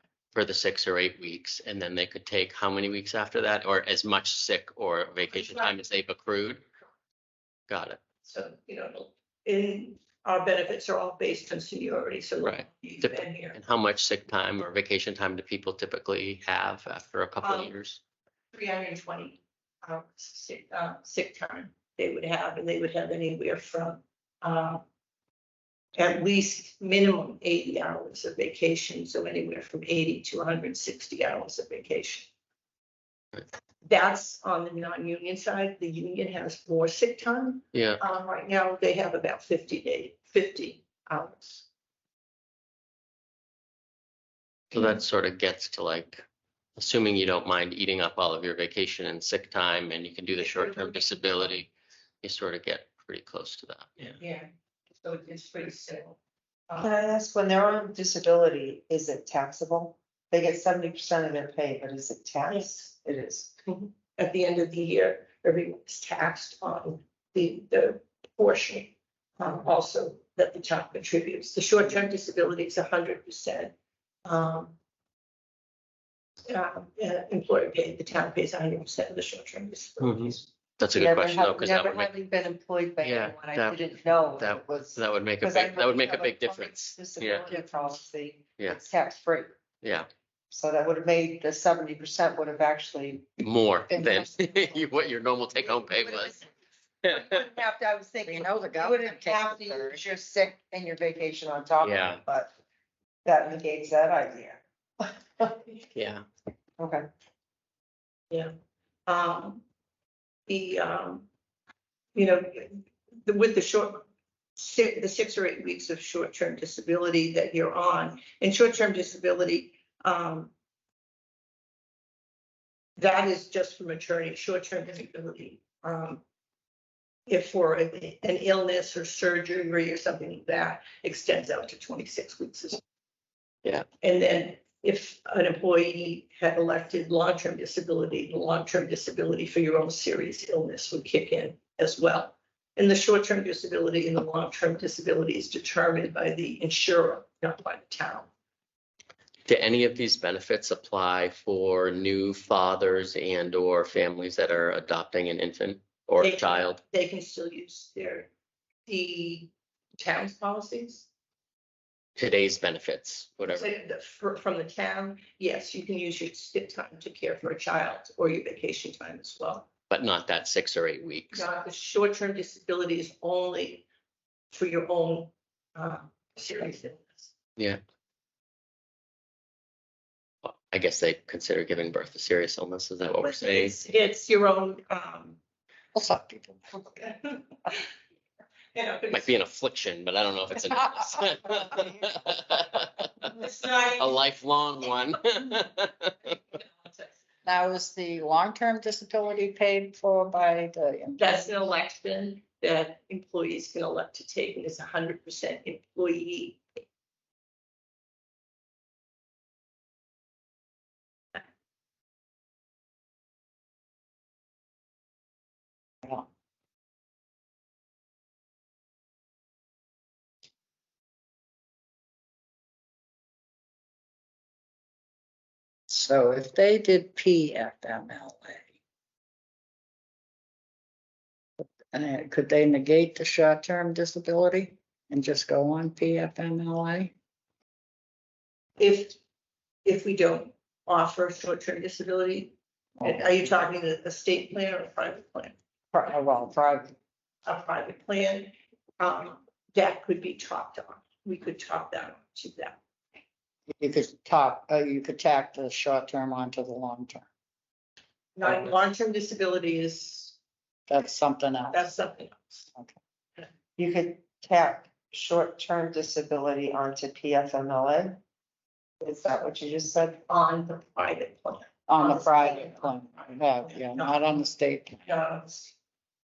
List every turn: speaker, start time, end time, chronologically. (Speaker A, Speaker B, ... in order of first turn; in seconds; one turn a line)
Speaker A: 0.3-6.6
Speaker B: 5.3-5.7
Speaker A: 7.7-8.0
Speaker B: 8.2-13.6
Speaker A: 12.4-18.0
Speaker B: 17.4-17.7
Speaker B: 18.5-24.8
Speaker B: 25.9-32.3
Speaker B: 33.8-41.6
Speaker A: 37.7-38.0
Speaker A: 44.7-46.2
Speaker A: 46.8-51.7
Speaker B: 50.4-51.6
Speaker A: 52.2-54.2
Speaker B: 54.2-54.5
Speaker B: 55.0-56.2
Speaker B: 56.7-56.9
Speaker C: 56.8-63.5
Speaker B: 62.5-62.8
Speaker B: 63.7-73.7
Speaker B: 74.2-74.8
Speaker B: 76.5-80.4
Speaker A: 80.0-82.1
Speaker C: 80.9-89.5
Speaker A: 83.0-87.5
Speaker A: 89.8-90.1
Speaker C: 90.5-93.3
Speaker A: 93.4-96.4
Speaker D: 93.9-94.5
Speaker C: 95.7-96.4
Speaker A: 97.0-97.4
Speaker C: 97.0-102.5
Speaker D: 98.2-100.0
Speaker A: 101.8-102.2
Speaker C: 103.2-105.7
Speaker A: 105.9-106.2
Speaker C: 106.8-107.0
Speaker B: 109.1-109.6
Speaker B: 110.5-111.3
Speaker B: 112.1-120.5
Speaker B: 123.0-126.2
Speaker B: 127.3-132.8
Speaker B: 134.0-148.3
Speaker A: 149.5-156.8
Speaker B: 156.2-158.3
Speaker B: 158.9-161.1
Speaker A: 162.2-163.7
Speaker B: 163.5-169.7
Speaker A: 169.9-171.5
Speaker B: 171.3-173.8
Speaker B: 174.5-177.3
Speaker A: 180.4-183.7
Speaker B: 183.2-185.4
Speaker D: 185.9-186.7
Speaker B: 186.8-187.8
Speaker B: 188.7-189.3
Speaker A: 189.1-193.1
Speaker B: 193.2-194.2
Speaker A: 193.9-196.3
Speaker B: 196.3-197.1
Speaker D: 197.4-201.6
Speaker B: 201.2-206.6
Speaker D: 225.9-228.7
Speaker D: 231.6-237.1
Speaker B: 238.8-239.2
Speaker B: 239.8-245.5
Speaker D: 243.0-243.4
Speaker D: 245.9-246.9
Speaker B: 247.4-252.8
Speaker D: 253.8-257.3
Speaker B: 258.4-260.4
Speaker D: 260.9-261.9
Speaker B: 261.7-262.6
Speaker C: 263.8-268.2
Speaker C: 269.0-270.2
Speaker B: 270.3-274.4
Speaker D: 271.9-275.1
Speaker B: 275.0-275.7